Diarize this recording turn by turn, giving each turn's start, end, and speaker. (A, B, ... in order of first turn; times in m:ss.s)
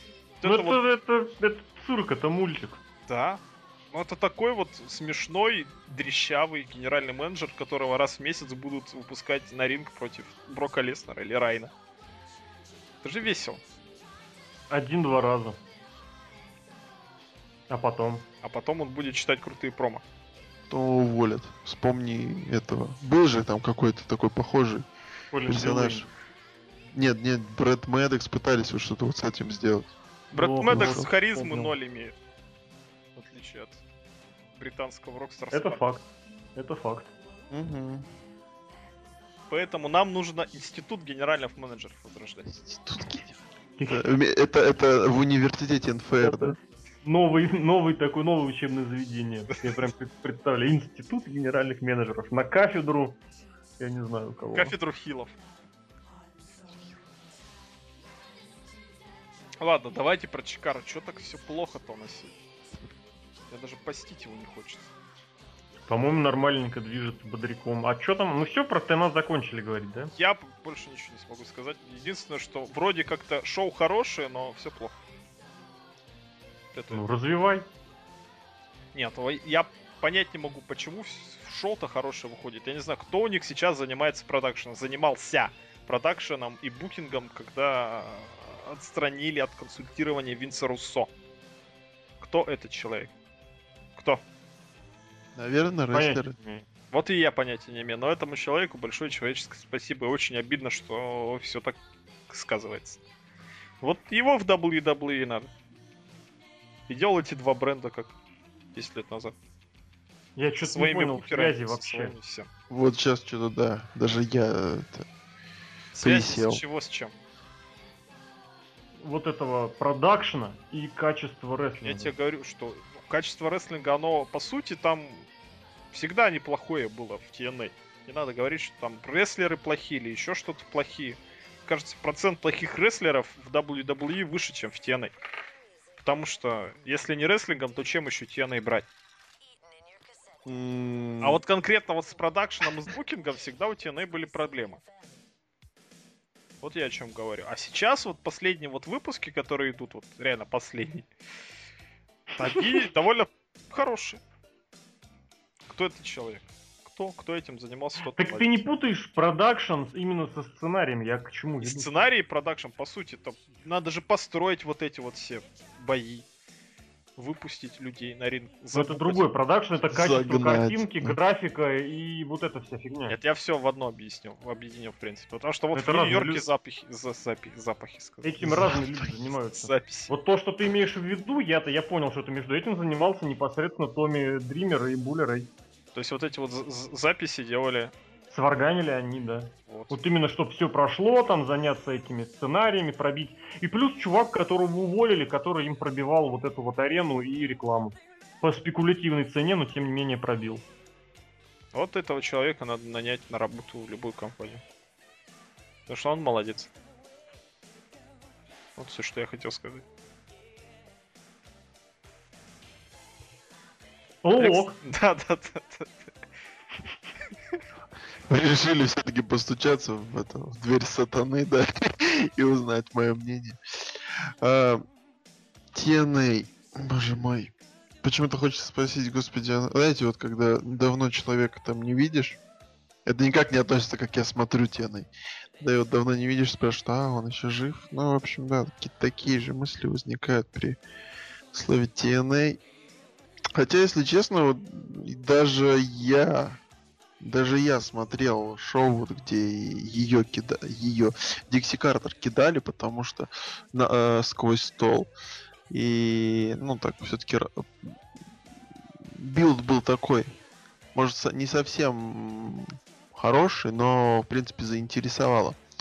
0:00.4-0:00.8 A
0:00.4-0:02.8 B
0:03.1-0:03.4 A
0:03.9-0:11.7 A
0:13.0-0:13.6 A
0:14.7-0:15.6 B
0:17.7-0:18.2 B
0:18.4-0:20.0 A
0:20.7-0:24.9 C
0:25.3-0:26.1 B
0:25.4-0:26.1 C
0:26.9-0:29.9 C
0:30.3-0:31.7 B
0:30.3-0:32.2 A
0:30.7-0:31.1 C
0:33.1-0:33.8 A
0:34.5-0:35.8 A
0:35.5-0:37.1 B
0:37.5-0:38.0 C
0:39.5-0:42.6 A
0:42.6-0:46.6 C
0:43.8-0:44.1 B
0:46.2-0:53.2 B
0:53.8-0:54.7 B
0:54.5-0:55.3 A
0:59.6-1:02.3 A
1:03.5-1:04.9 A
1:05.9-1:10.1 B
1:10.2-1:15.0 A
1:16.7-1:17.0 A
1:16.9-1:17.7 B
1:18.9-1:31.1 A
1:32.2-1:33.1 A
1:34.0-1:34.2 A
1:35.3-1:36.4 C
1:35.9-1:36.6 B
1:36.9-1:41.8 A
1:42.3-1:43.0 A
1:43.8-1:45.5 A
1:46.9-1:48.1 A
1:48.7-1:49.4 A
1:50.4-1:52.1 B
1:50.6-1:52.5 A
1:52.7-1:55.1 C
1:55.9-1:57.1 A
1:56.0-1:56.6 C
1:59.0-2:02.1 B
2:01.8-2:05.3 A
2:05.9-2:15.1 A
2:16.0-2:18.9 A
2:20.4-2:21.4 C
2:21.2-2:24.8 A
2:26.6-2:31.1 A
2:32.4-2:34.2 A
2:35.7-2:38.6 A
2:38.1-2:42.0 B
2:41.6-2:46.2 A
2:47.2-2:49.2 A
2:48.7-2:53.2 B
2:49.9-2:51.2 C
2:53.1-2:58.6 A
2:55.7-2:56.5 B
2:58.2-3:05.5 B
2:58.5-2:58.7 C
2:59.5-3:00.1 A
3:05.9-3:07.9 A
3:08.3-3:20.6 B
3:09.7-3:10.0 A
3:21.7-3:24.6 A
3:25.9-3:26.7 A
3:28.8-3:29.8 A
3:34.2-3:34.8 B
3:34.4-3:36.1 A
3:38.3-3:44.8 C
3:45.7-3:52.4 C
3:53.0-3:55.1 C
3:55.6-4:00.8 C
4:01.5-4:02.6 C
4:03.5-4:06.6 C
4:07.2-4:15.1 C
4:15.7-4:18.0 C
4:19.0-4:20.4 C
4:20.9-4:25.6 C